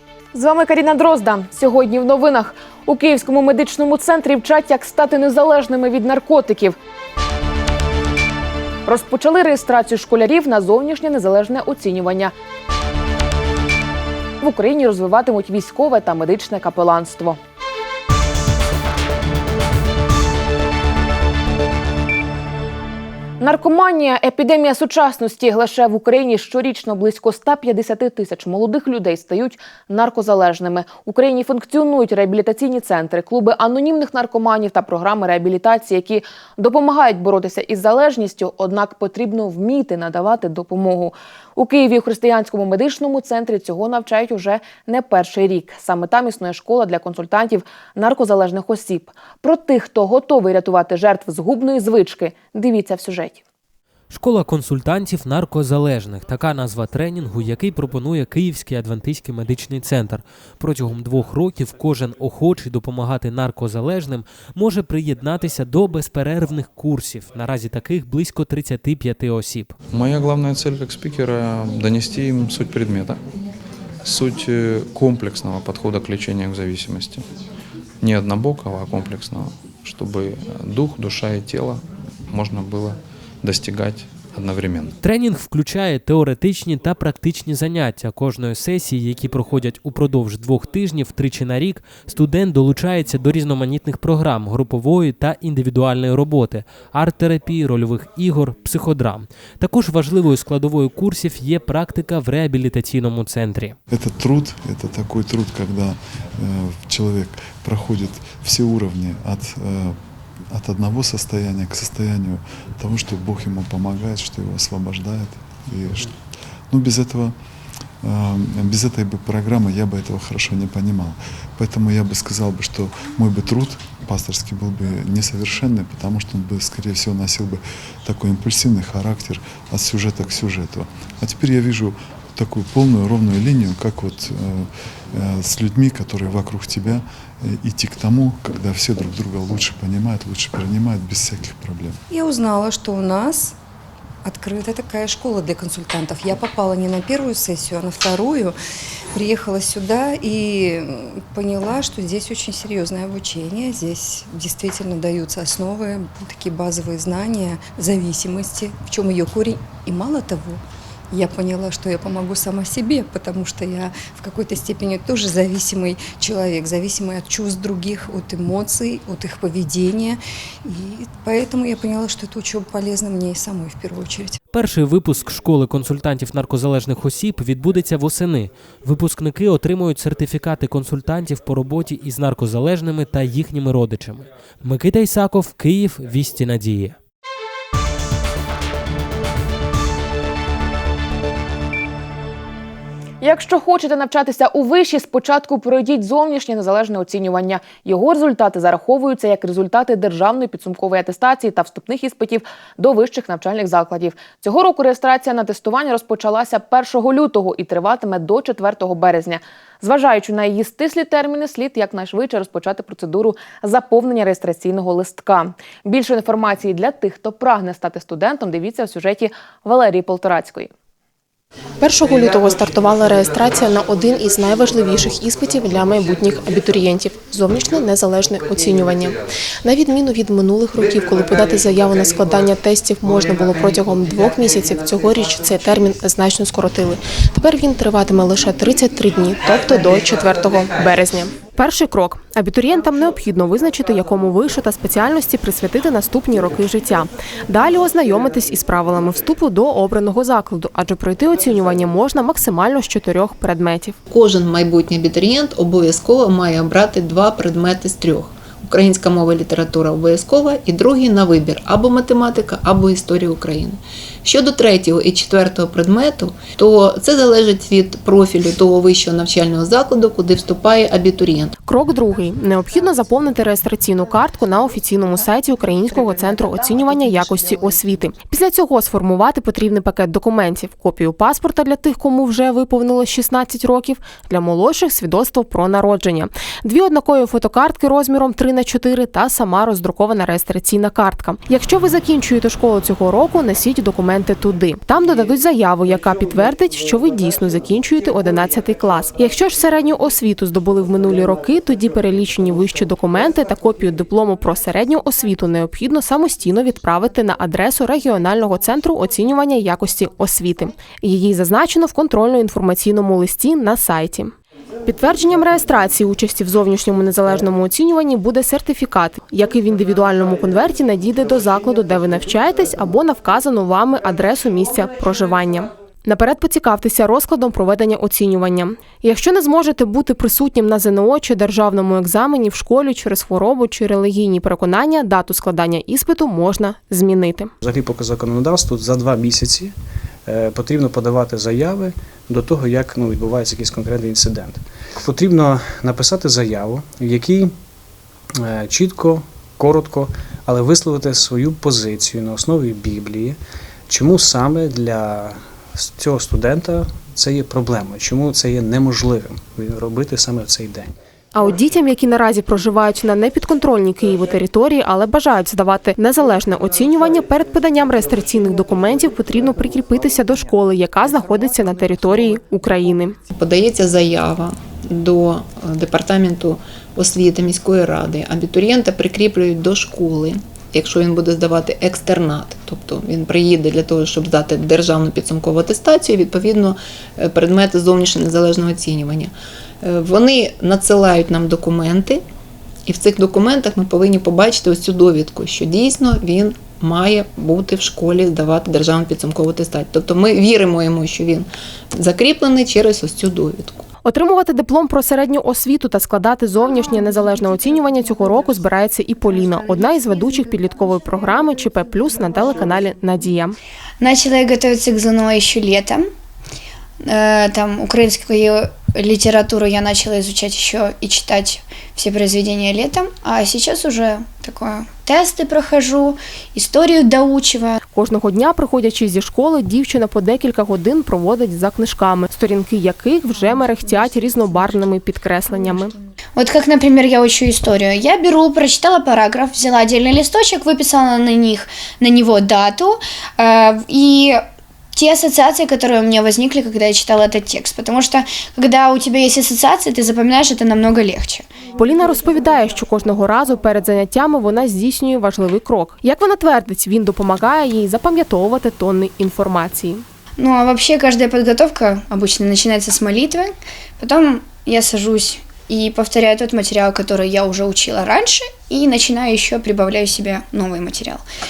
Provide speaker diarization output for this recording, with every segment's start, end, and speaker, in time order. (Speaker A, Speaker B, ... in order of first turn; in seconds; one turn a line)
Speaker A: 0.3-6.8
Speaker A: 8.9-12.3
Speaker A: 14.4-17.4
Speaker A: 23.4-53.4
Speaker B: 54.1-69.7
Speaker C: 69.9-73.2
Speaker C: 74.0-77.2
Speaker C: 78.0-85.0
Speaker B: 85.0-103.8
Speaker D: 103.9-110.0
Speaker D: 110.5-116.1
Speaker D: 116.7-117.3
Speaker D: 118.0-142.0
Speaker E: 142.1-143.6
Speaker E: 144.2-148.6
Speaker E: 149.1-174.4
Speaker B: 174.5-187.0
Speaker A: 193.2-220.7
Speaker F: 221.8-253.9
Speaker G: 254.1-271.5
Speaker F: 271.7-314.3
Speaker F: 314.9-337.5
Speaker H: 337.6-339.7
Speaker H: 340.3-347.5
Speaker H: 348.4-353.4
Speaker H: 353.9-360.9
Speaker F: 361.3-373.2
Speaker G: 373.4-389.3
Speaker G: 389.8-392.2
Speaker G: 392.9-403.8
Speaker F: 404.1-413.6
Speaker I: 414.0-416.1
Speaker I: 417.0-427.8
Speaker F: 427.9-435.9
Speaker I: 433.4-434.9
Speaker I: 435.5-451.5
Speaker F: 451.8-460.0
Speaker I: 460.4-471.2